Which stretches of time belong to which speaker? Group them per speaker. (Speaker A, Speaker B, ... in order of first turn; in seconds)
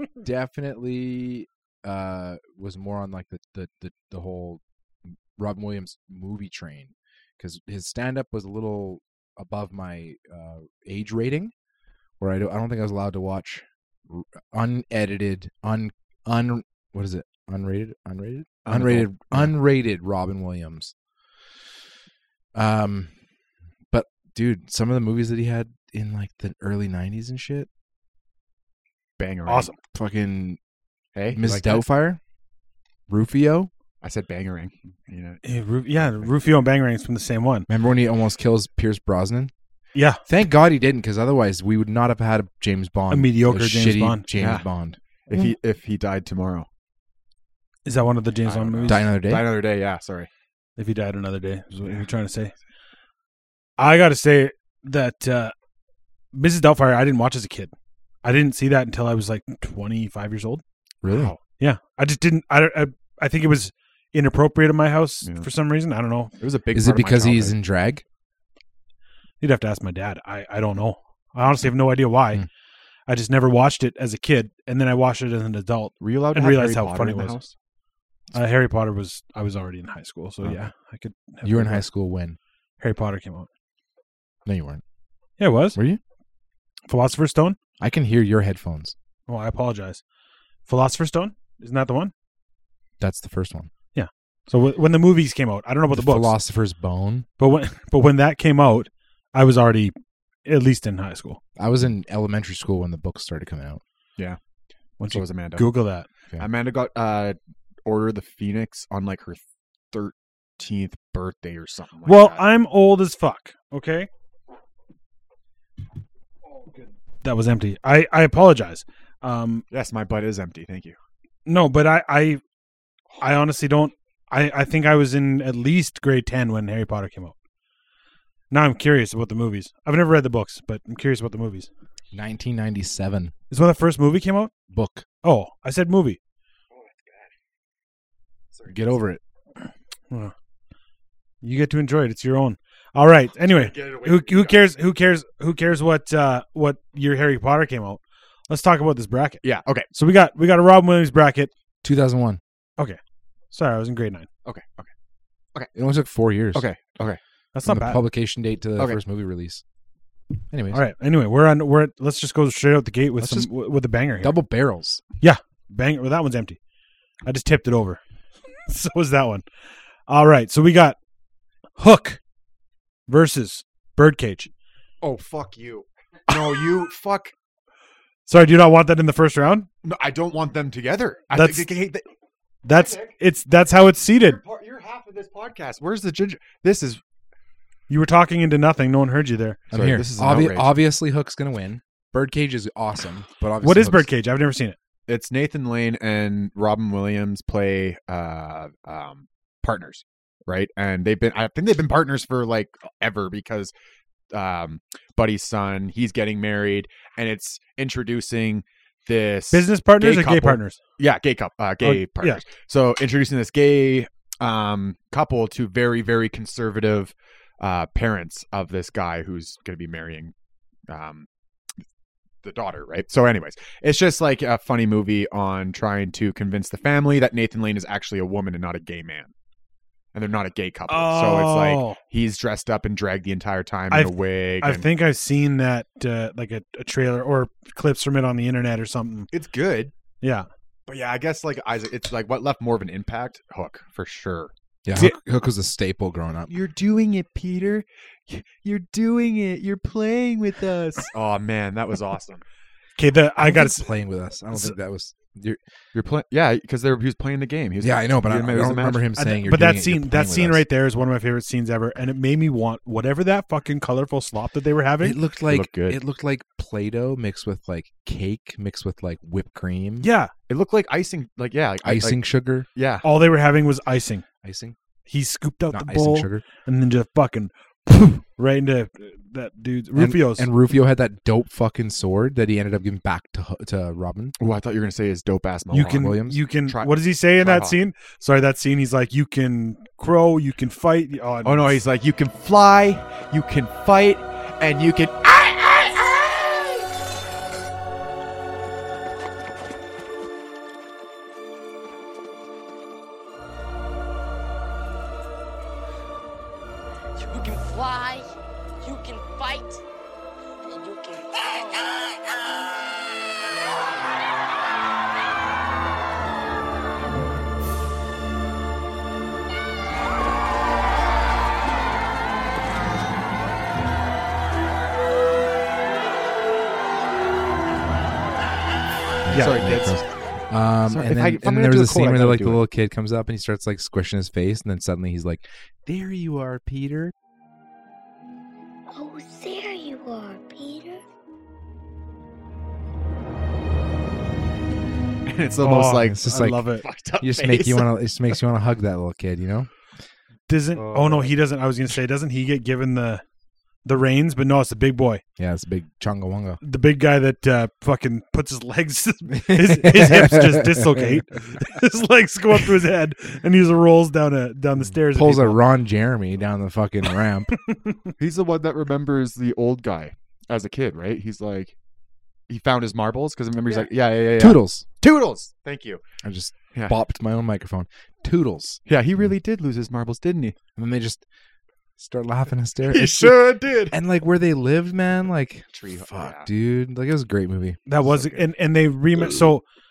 Speaker A: 0.2-4.6, 5.2-11.5, 12.2-20.9, 22.5-23.1, 23.9-27.7, 29.9-30.6, 31.3-32.2, 33.1-33.7, 37.7-39.5, 40.3-45.5, 48.9-49.5, 61.0-61.3, 66.7-68.0, 81.4-82.4, 84.4-84.8, 85.7-86.0, 87.8-88.9, 93.0-93.7, 95.9-97.3, 101.6-103.8, 132.1-133.3, 134.7-135.1, 138.7-139.2, 151.8-152.4, 155.7-156.7, 157.6-159.6, 160.5-160.8, 163.2-163.5, 164.2-165.0, 189.7-194.1, 244.8-246.6, 253.4-255.6, 257.8-260.6, 265.0-270.1, 271.8-272.7, 274.4-274.8, 275.7-276.4, 279.9-284.3, 285.8-286.4, 329.2-337.1, 346.0-346.7, 347.2-349.7, 350.9-351.3, 355.4-356.6, 359.3-361.2, 364.8-367.5, 374.4-374.8, 376.2-379.3, 380.8-381.2, 382.0-387.8
Speaker B: 18.6-19.5, 29.2-29.7, 31.1-31.8, 34.0-35.4, 44.4-44.6, 45.3-46.7, 48.5-50.3, 61.1-61.4, 65.2-65.5, 66.4-67.6, 76.0-77.5, 105.1-105.7, 106.4-109.4, 109.9-112.5, 119.7-121.0, 136.8-137.2, 143.4-144.6, 149.4-149.9, 154.4-154.9, 156.5-157.2, 175.0-177.3, 179.8-182.1, 182.7-183.1, 184.2-187.0, 189.7-190.7, 195.1-203.7, 204.3-220.3, 220.9-221.3, 222.4-229.3, 230.1-234.8, 239.3-239.9, 240.9-244.5, 246.5-252.4, 255.9-259.1, 265.5-266.0, 270.5-272.2, 272.7-273.1, 284.4-287.8, 291.4-296.9, 329.3-330.0, 330.9-332.6, 345.3-346.2, 346.7-347.9, 368.2-371.7, 372.5-376.0, 378.9-380.6, 382.9-383.9, 385.7-386.5, 388.0-388.4
Speaker C: 29.5-29.8, 35.4-37.7, 39.9-40.2, 43.1-44.2, 47.8-49.0, 50.8-52.5, 53.8-55.5, 56.3-57.7, 58.2-60.6, 61.6-66.3, 69.4-72.4, 73.1-77.3, 78.3-81.8, 82.8-83.5, 85.4-85.8, 86.9-87.6, 89.3-90.0, 90.7-92.1, 93.9-96.3, 97.4-99.9, 100.4-101.4, 105.0-106.1, 112.0-114.1, 117.2-119.6, 121.5-122.4, 123.2-127.3, 128.5-131.7, 133.5-134.5, 135.2-136.2, 141.4-151.5, 153.5-154.3, 157.5-158.0, 160.7-164.3, 165.2-166.6, 167.2-168.0, 168.7-169.4, 170.1-171.0, 171.8-172.2, 173.1-174.5, 178.3-179.7, 181.3-181.7, 182.6-184.4, 187.9-189.6, 193.6-194.8, 209.5-210.8, 211.8-212.4, 230.9-232.0, 233.9-239.3, 240.2-240.5, 253.0-253.9, 259.2-265.2, 270.0-270.3, 273.0-274.2, 275.1-280.5, 285.7-291.8, 345.6-346.8, 350.5-353.2, 353.8-355.2, 356.6-365.6, 367.7-367.9, 387.9-389.6
Speaker D: 307.2-308.3, 308.8-309.8, 310.6-312.0
Speaker E: 338.9-341.0